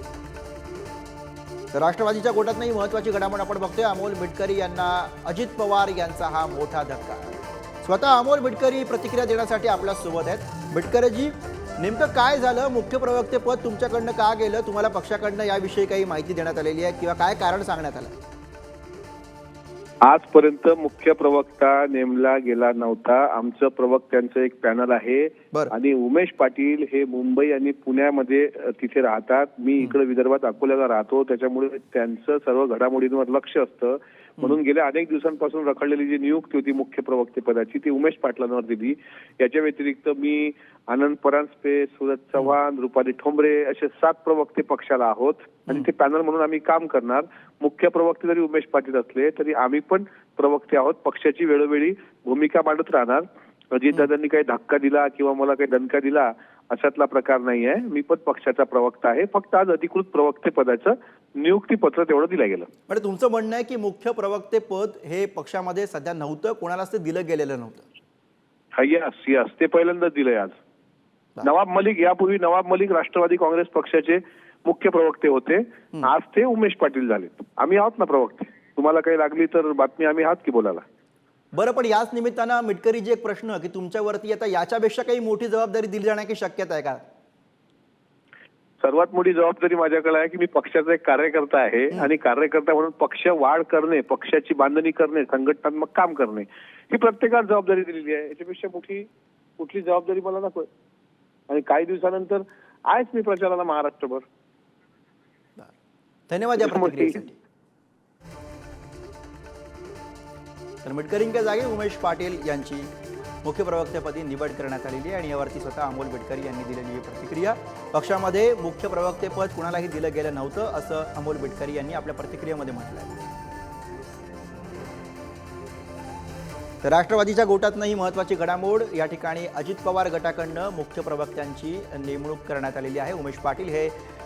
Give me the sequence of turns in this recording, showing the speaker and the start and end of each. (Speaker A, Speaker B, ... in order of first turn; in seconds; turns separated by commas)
Speaker A: 1.7-18.1, Speaker B: 20.0-62.7, Speaker A: 62.9-67.9, Speaker B: 68.8-70.5, Speaker B: 71.4-80.8, Speaker A: 81.5-87.0, Speaker B: 88.8-99.1, Speaker B: 99.6-100.7, Speaker B: 101.5-104.2, Speaker A: 106.3-107.4, Speaker B: 106.6-107.2, Speaker A: 110.8-112.9, Speaker A: 113.4-123.2, Speaker A: 126.8-133.9